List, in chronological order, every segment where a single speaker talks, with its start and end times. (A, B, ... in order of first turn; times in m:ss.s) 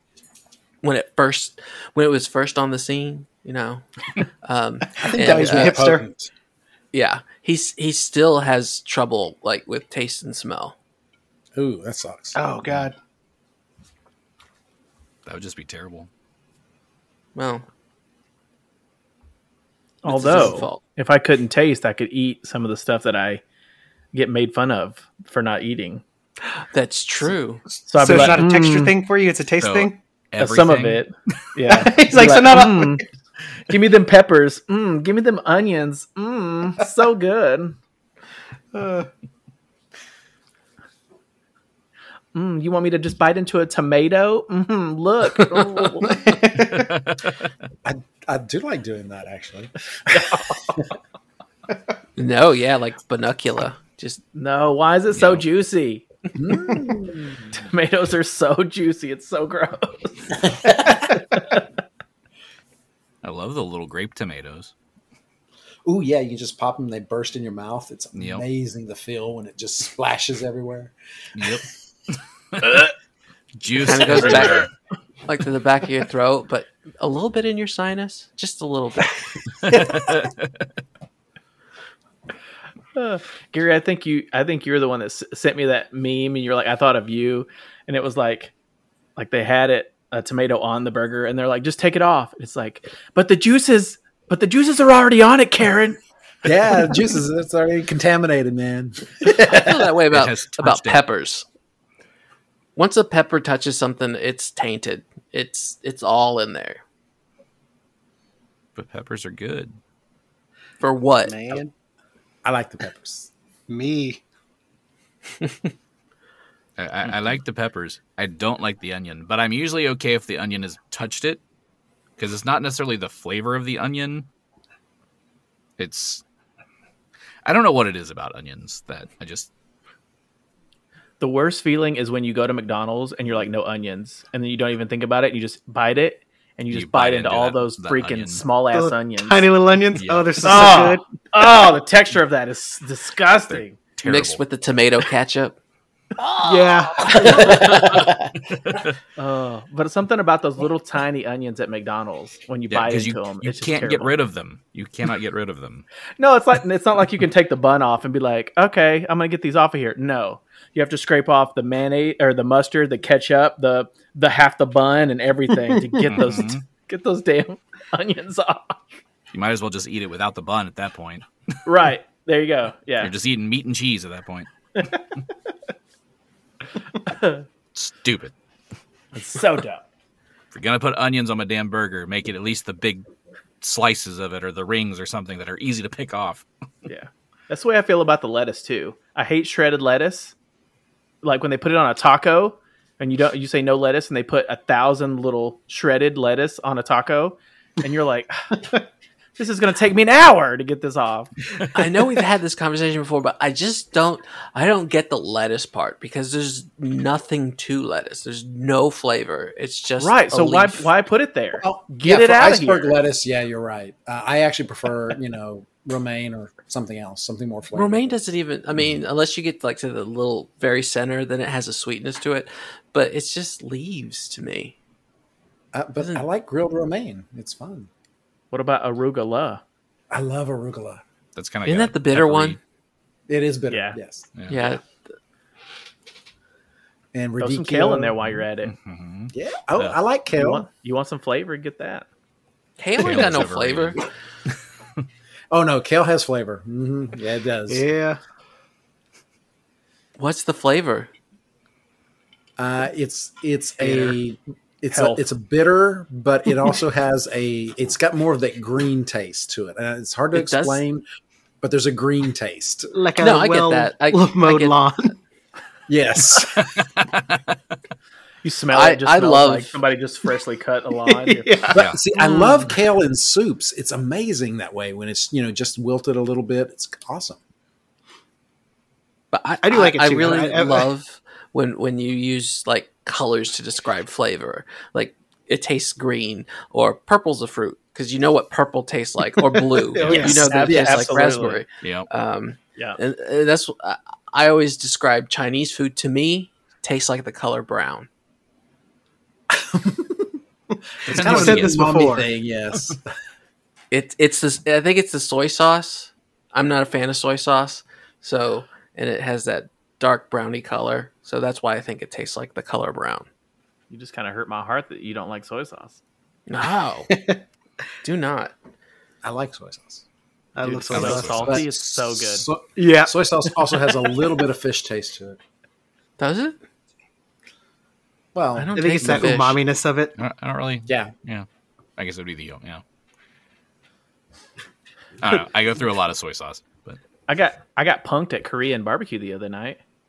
0:00.8-0:03.9 A
0:04.4-0:05.8 A
0:05.0-0:06.3 B
0:05.0-0:06.0 C
0:06.9-0:10.8 A
0:11.5-0:12.4 B
0:12.4-0:12.9 C
0:15.2-0:16.1 D
0:17.4-0:17.6 A
0:20.0-0:23.4 E
0:20.0-0:20.8 A
0:24.1-0:26.0 E
0:26.7-0:27.6 A
0:27.9-0:28.9 E
0:28.0-0:30.0 C
0:29.6-0:31.0 D
0:30.4-0:33.0 E
0:31.7-0:33.0 C
0:33.7-0:37.8 E
0:38.7-0:39.1 C
0:42.3-0:46.4 E
0:46.0-0:46.9 C
0:46.7-0:47.5 D
0:47.8-0:50.8 B
0:50.1-0:50.6 E
0:52.2-0:54.2 A
0:54.3-0:56.0 E
0:55.1-0:55.4 D
0:56.4-0:57.5 B
0:57.5-1:00.4 E
1:00.4-1:01.1 B
1:01.3-1:01.6 E
1:03.2-1:04.7 D
1:05.8-1:10.9 B
1:08.1-1:08.4 D
1:11.4-1:11.6 D
1:13.6-1:14.7 D
1:13.8-1:14.7 A
1:15.3-1:19.2 A
1:19.6-1:20.5 D
1:22.9-1:28.5 E
1:29.2-1:36.0 E
1:36.4-1:40.0 B
1:39.4-1:41.4 A
1:40.1-1:41.0 D
1:42.8-1:46.8 A
1:48.8-1:49.8 D
1:50.8-1:51.6 A
1:51.2-1:51.7 C
1:52.4-1:53.3 B
1:53.7-1:54.2 C
1:56.8-2:01.4 D
2:02.2-2:04.3 D
2:05.8-2:06.2 D
2:07.4-2:09.5 D
2:11.2-2:19.5 E
2:16.7-2:18.4 D
2:18.7-2:21.1 C
2:19.9-2:20.3 D
2:20.4-2:23.8 E
2:23.5-2:24.4 D
2:24.0-2:25.6 A
2:26.2-2:28.1 A
2:26.4-2:28.1 C
2:28.6-2:28.9 D
2:29.2-2:34.1 E
2:32.7-2:35.8 D
2:36.2-2:48.8 E
2:46.0-2:46.6 D
2:49.3-2:51.2 D
2:51.6-2:53.1 E
2:53.0-2:54.5 D
2:57.0-2:57.4 E
2:57.8-2:58.3 D
2:59.1-2:59.8 E
3:00.5-3:03.0 D
3:03.6-3:06.4 D
3:06.9-3:10.3 E
3:11.2-3:18.6 E
3:19.4-3:21.3 E
3:21.7-3:30.9 A
3:30.0-3:33.0 E
3:31.6-3:38.2 B
3:37.7-3:44.8 A
3:45.7-3:47.9 B
3:48.5-3:49.6 E
3:50.1-3:51.0 B
3:51.4-3:52.6 D
3:51.6-3:52.6 A
3:53.3-3:54.2 B
3:53.7-3:54.0 E
3:54.4-3:54.8 D
3:54.5-3:55.0 A
3:57.1-3:58.2 B
3:57.4-3:58.7 E
3:58.6-4:00.0 D
3:59.3-4:00.7 B
4:00.3-4:02.1 E
4:02.8-4:04.0 A
4:03.0-4:04.0 D
4:05.5-4:07.9 B
4:07.7-4:08.2 C
4:10.2-4:11.1 A
4:12.6-4:21.0 B
4:13.8-4:14.1 E
4:14.9-4:15.2 E
4:20.3-4:20.8 A
4:21.6-4:22.9 B
4:22.9-4:25.1 C
4:23.2-4:24.8 A
4:25.9-4:26.9 B
4:26.6-4:27.5 D
4:28.4-4:31.7 E
4:28.7-4:29.8 A
4:31.0-4:32.5 C
4:31.7-4:37.4 B
4:39.3-4:58.1 A
4:39.6-4:40.9 C
4:49.9-4:50.5 C
4:50.1-4:51.6 E
4:50.5-4:51.0 B
4:51.8-4:52.1 D
4:59.5-5:00.4 B
5:01.0-5:03.0 B
5:01.1-5:01.9 D
5:01.1-5:02.3 C
5:03.9-5:13.3 A
5:13.9-5:16.0 E
5:16.5-5:17.1 A
5:17.1-5:17.4 C
5:18.0-5:18.5 A
5:19.2-5:20.0 B
5:20.6-5:21.4 C
5:20.6-5:22.5 E
5:20.9-5:21.6 D
5:21.3-5:25.4 B
5:22.8-5:23.8 C
5:26.2-5:26.6 A
5:28.3-5:29.4 B
5:28.6-5:29.6 A
5:28.8-5:30.2 C
5:30.2-5:31.4 D
5:30.9-5:31.1 B
5:32.0-5:32.8 D
5:35.2-5:37.0 D
5:37.3-5:39.8 E